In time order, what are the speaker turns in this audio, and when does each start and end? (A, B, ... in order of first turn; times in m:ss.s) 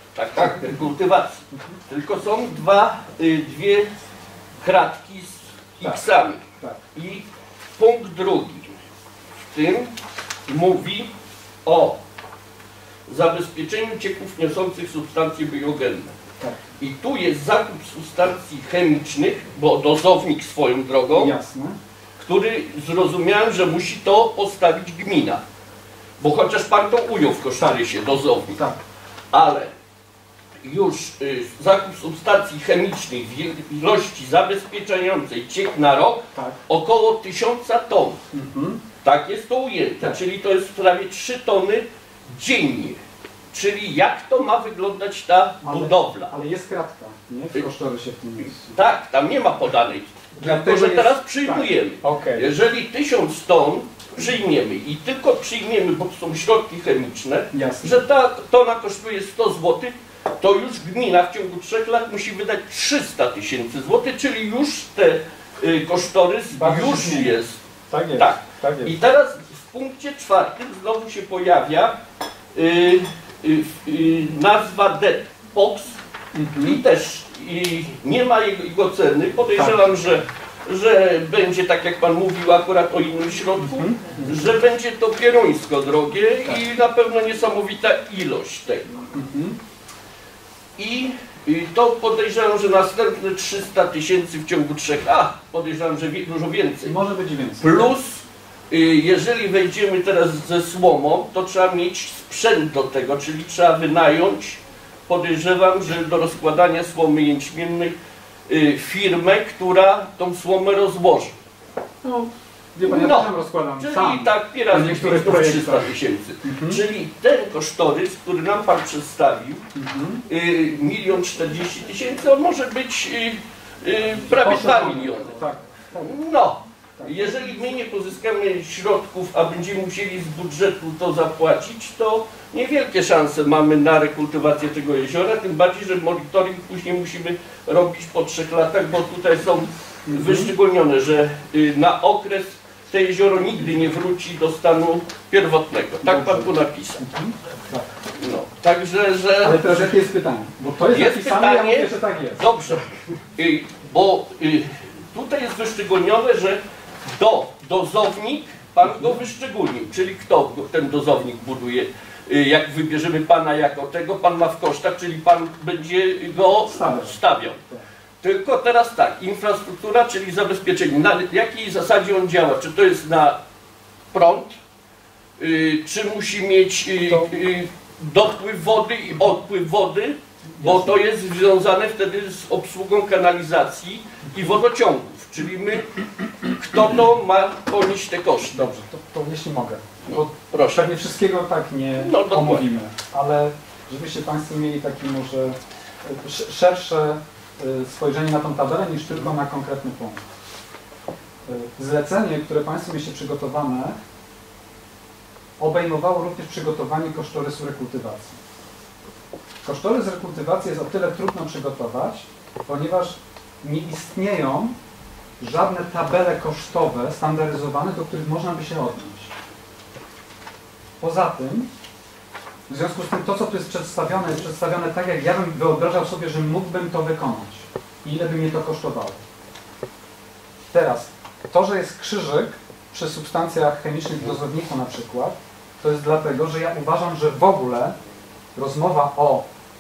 0:00.2-0:03.9 A
0:00.4-0:00.8 B
0:01.5-0:01.8 B
0:04.6-0:08.8 A
0:09.5-0:09.9 A
0:10.5-0:11.1 A
0:11.6-0:12.0 A
0:13.1-0:16.1 A
0:16.8-0:21.3 A
0:21.1-0:21.8 B
0:22.2-0:25.4 A
0:26.2-0:28.6 A
0:29.3-0:29.7 A
0:30.6-0:38.2 A
0:36.3-0:36.6 B
0:38.3-0:38.8 B
0:39.0-0:43.0 A
0:43.5-0:46.3 A
0:45.6-0:48.7 B
0:48.4-1:07.6 A
0:50.4-0:52.5 B
0:57.5-0:58.0 B
1:06.5-1:07.4 B
1:07.9-1:08.9 B
1:08.1-1:12.0 A
1:12.6-1:16.0 A
1:16.3-1:16.8 B
1:16.6-1:29.0 A
1:19.5-1:19.9 B
1:23.6-1:24.4 B
1:29.1-1:29.6 B
1:30.8-1:37.0 A
1:36.8-1:37.9 B
1:37.6-1:48.0 A
1:48.5-1:51.3 A
1:52.0-1:55.9 B
1:52.8-1:59.7 A
1:56.4-1:56.8 B
1:59.8-2:00.2 B
2:00.3-2:05.4 A
2:04.2-2:06.2 B
2:06.0-2:27.0 A
2:07.0-2:07.3 B
2:20.1-2:20.5 B
2:26.0-2:27.9 B
2:28.2-2:30.0 A
2:29.4-2:32.5 B
2:30.9-2:32.8 A
2:33.4-2:47.6 A
2:38.8-2:39.2 B
2:46.5-2:47.8 B
2:48.2-2:53.4 A
2:54.1-2:54.6 A
2:55.4-3:05.9 A
2:57.1-2:57.4 B
3:00.5-3:01.0 B
3:06.4-3:08.7 A
3:08.5-3:20.2 B
3:10.1-3:11.0 A
3:12.0-3:12.7 A
3:21.5-3:24.0 B
3:25.6-3:28.4 B
3:29.6-3:34.8 B
3:35.4-3:39.3 B
3:41.0-3:41.7 B
3:42.7-3:49.2 B
3:50.7-3:58.0 B
3:58.6-3:59.5 B